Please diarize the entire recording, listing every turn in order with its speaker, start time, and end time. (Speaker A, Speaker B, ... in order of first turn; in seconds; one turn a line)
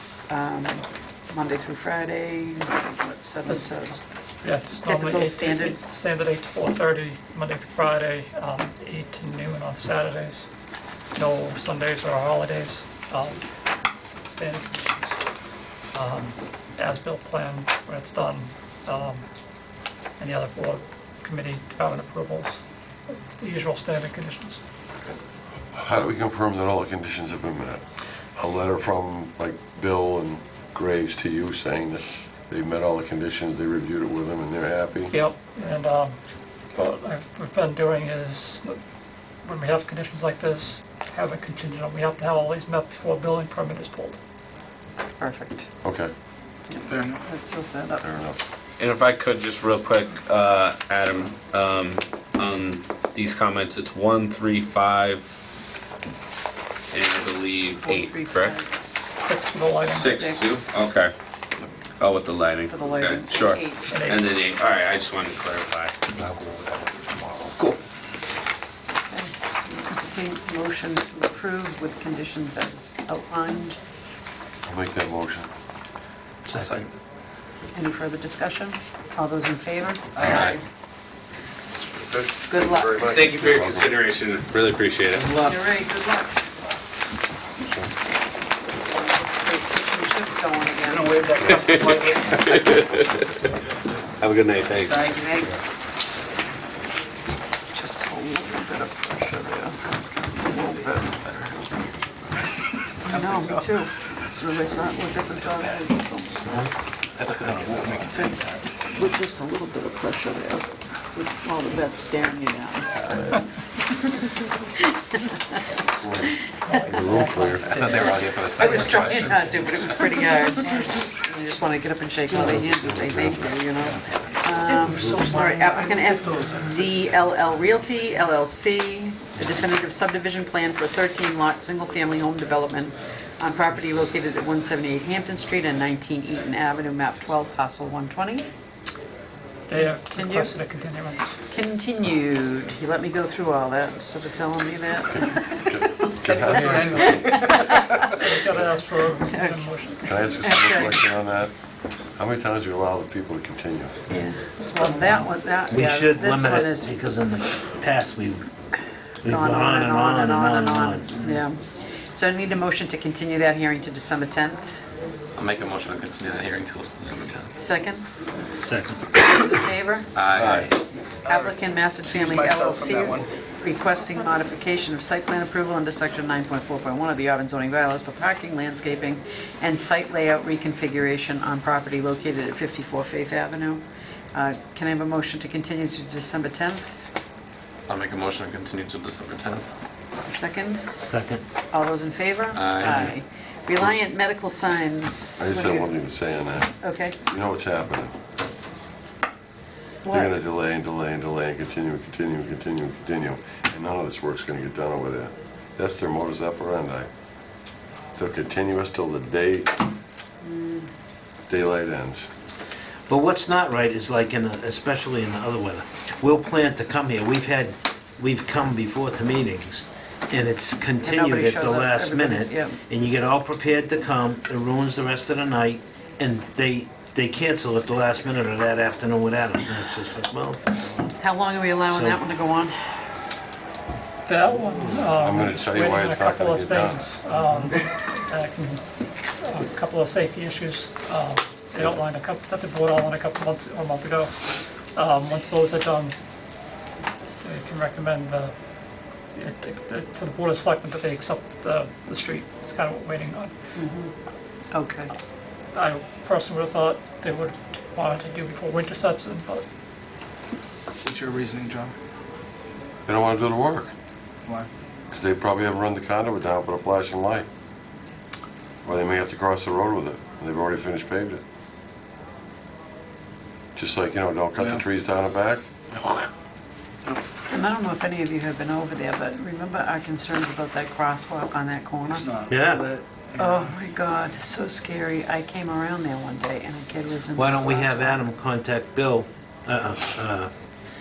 Speaker A: 0.3-4.0
Speaker B: 3.5-10.5
Speaker A: 4.7-5.8
Speaker B: 11.2-13.4
Speaker B: 14.2-15.2
Speaker B: 15.9-19.2
Speaker B: 20.2-24.6
Speaker C: 25.7-27.8
Speaker C: 28.4-35.1
Speaker B: 35.1-36.2
Speaker B: 36.7-38.8
Speaker B: 39.4-44.2
Speaker A: 45.2-45.7
Speaker C: 45.8-46.1
Speaker A: 46.7-48.1
Speaker D: 46.9-47.2
Speaker C: 48.0-48.4
Speaker E: 48.8-55.3
Speaker E: 56.9-58.5
Speaker A: 57.8-59.4
Speaker B: 59.2-60.1
Speaker E: 59.9-61.1
Speaker A: 59.9-60.8
Speaker E: 62.0-66.0
Speaker A: 62.7-64.0
Speaker B: 63.9-64.3
Speaker A: 69.1-73.8
Speaker C: 74.7-75.5
Speaker F: 76.5-76.8
Speaker A: 77.7-80.6
Speaker E: 80.2-80.6
Speaker C: 81.9-84.0
Speaker A: 82.5-83.3
Speaker E: 83.1-85.3
Speaker A: 85.2-86.3
Speaker A: 88.8-91.3
Speaker D: 90.8-92.6
Speaker E: 91.5-93.2
Speaker E: 94.2-95.0
Speaker D: 94.9-95.3
Speaker A: 95.0-95.7
Speaker A: 97.7-101.8
Speaker A: 103.1-106.7
Speaker D: 103.1-103.7
Speaker F: 107.2-108.0
Speaker D: 107.5-108.6
Speaker A: 108.1-108.4
Speaker A: 109.0-113.2
Speaker A: 114.1-114.4
Speaker C: 116.0-118.1
Speaker B: 116.5-118.8
Speaker G: 117.7-120.0
Speaker A: 118.5-138.5
Speaker C: 122.4-123.5
Speaker B: 124.9-126.5
Speaker B: 139.7-141.3
Speaker A: 139.7-140.6
Speaker A: 141.5-148.1
Speaker C: 145.1-147.4
Speaker D: 146.2-148.1
Speaker B: 148.1-150.2
Speaker A: 149.2-151.0
Speaker C: 150.1-151.5
Speaker C: 152.2-154.1
Speaker A: 154.1-156.9
Speaker B: 154.7-155.3
Speaker F: 155.7-158.5
Speaker F: 159.2-161.3
Speaker A: 159.2-161.6
Speaker A: 162.2-164.7
Speaker G: 165.4-167.5
Speaker A: 167.6-168.1
Speaker F: 168.6-169.1
Speaker A: 169.1-170.1
Speaker G: 170.1-170.7
Speaker D: 170.4-170.7
Speaker D: 171.2-173.3
Speaker A: 171.2-183.8
Speaker A: 184.3-186.9
Speaker G: 187.9-189.7
Speaker A: 190.2-191.0
Speaker F: 191.0-191.4
Speaker A: 191.7-195.9
Speaker G: 192.5-192.9
Speaker F: 192.8-193.1
Speaker C: 195.4-198.2
Speaker A: 196.8-197.2
Speaker A: 200.1-200.3
Speaker C: 200.1-207.1
Speaker C: 208.2-209.7
Speaker A: 210.4-210.9
Speaker C: 211.5-212.3
Speaker F: 213.1-230.9
Speaker A: 221.0-222.8
Speaker A: 231.2-233.0
Speaker F: 231.9-232.2
Speaker B: 234.3-238.8
Speaker C: 235.2-237.1
Speaker B: 239.4-244.4
Speaker B: 244.9-246.2
Speaker B: 247.4-248.5
Speaker B: 249.3-253.5
Speaker A: 253.8-254.1
Speaker A: 254.7-255.1
Speaker B: 255.8-259.6
Speaker D: 261.0-261.9
Speaker C: 263.1-263.9
Speaker C: 265.1-267.5
Speaker C: 268.9-271.4
Speaker C: 273.8-275.6
Speaker D: 276.0-276.3
Speaker A: 277.5-282.3
Speaker D: 282.1-283.8
Speaker F: 282.5-282.8
Speaker A: 283.4-288.2
Speaker F: 287.4-290.5